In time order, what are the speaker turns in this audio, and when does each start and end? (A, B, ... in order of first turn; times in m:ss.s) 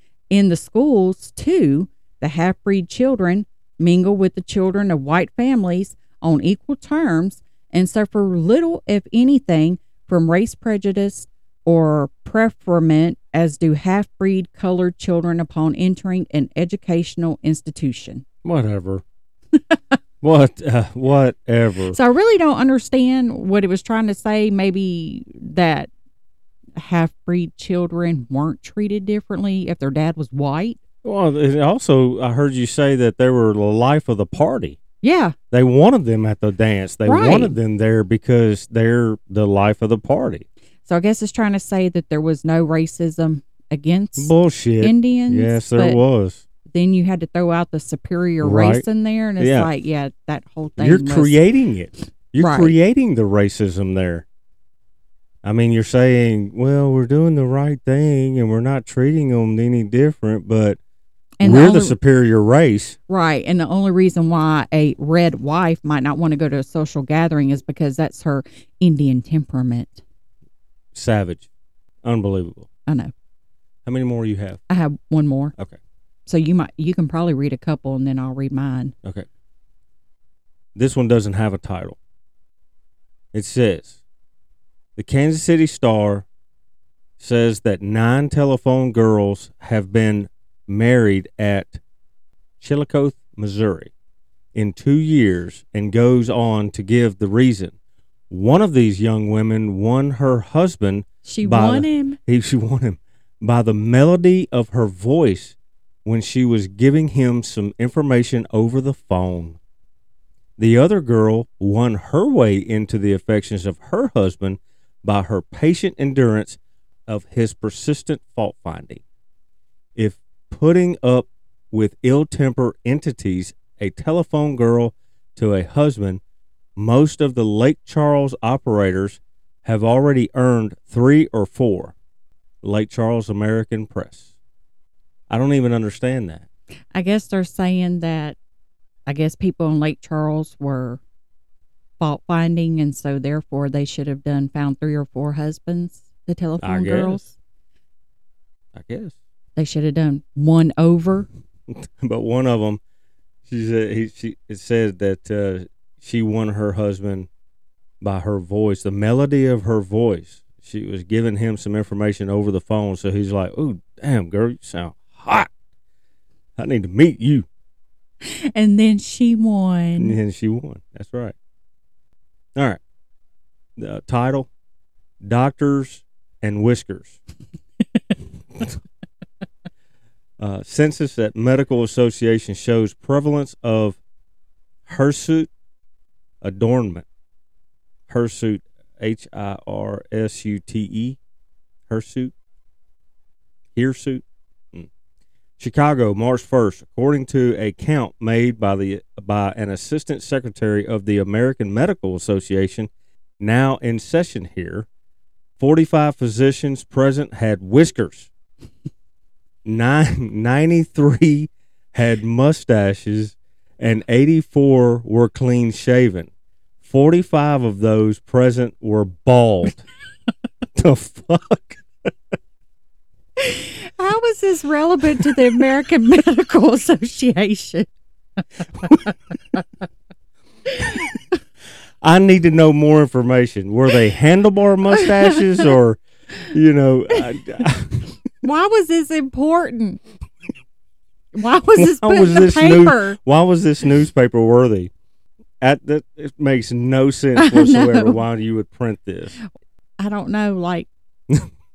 0:00.3-0:18.2 A
0:18.4-0:19.0 B
0:19.5-0:19.9 A
0:20.2-0:22.0 B
0:21.9-0:25.9 A
0:26.8-0:30.8 A
0:31.0-0:34.8 B
0:35.0-0:35.3 A
0:35.5-0:40.4 B
0:37.0-0:37.5 A
0:40.8-0:46.0 A
0:44.2-0:46.4 B
0:46.7-0:51.4 A
0:48.4-0:48.8 B
0:49.4-0:49.7 B
0:50.8-0:54.2 B
0:52.4-0:52.7 A
0:55.4-1:00.8 B
1:01.4-1:02.0 A
1:01.4-1:03.0 B
1:03.1-1:10.0 A
1:10.9-1:11.5 B
1:12.0-1:12.7 B
1:12.8-1:13.1 A
1:13.8-1:14.6 B
1:14.7-1:15.5 A
1:16.2-1:18.9 A
1:20.7-1:22.0 B
1:23.3-1:24.0 B
1:25.0-1:26.2 B
1:27.2-1:31.8 B
1:32.6-1:33.9 B
1:34.5-1:37.7 B
1:38.3-1:49.6 B
1:41.2-1:42.2 A
1:50.6-1:59.0 B
2:00.0-2:06.2 B
2:06.8-2:11.9 B
2:12.6-2:14.3 B
2:15.3-2:16.4 B
2:16.9-2:18.4 A
2:19.0-2:21.0 A
2:22.0-2:27.3 A
2:26.6-2:27.3 B
2:28.7-2:29.2 B
2:29.6-2:31.3 A
2:31.7-2:32.8 B
2:33.5-2:37.3 B
2:38.0-2:45.5 B
2:46.6-2:47.5 B
2:48.2-2:50.2 A
2:50.0-2:51.3 B
2:53.8-2:54.5 B
2:55.2-2:57.2 B
3:00.4-3:04.0 B
3:04.8-3:05.5 B
3:06.4-3:07.0 B
3:08.1-3:11.2 B
3:11.9-3:12.3 B
3:13.7-3:14.9 B
3:15.6-3:22.9 B
3:23.4-3:24.8 B
3:25.6-3:28.3 B
3:29.6-3:36.3 B
3:36.8-3:39.8 B
3:40.7-3:42.1 B
3:43.4-3:47.9 A
3:48.6-3:49.6 A
3:50.7-3:51.1 A
3:52.0-3:58.1 B
3:54.9-3:55.7 A
3:58.4-4:00.0 A
4:01.3-4:03.2 A
4:01.8-4:04.9 B
4:05.6-4:09.3 B
4:07.4-4:08.2 A
4:10.0-4:10.9 A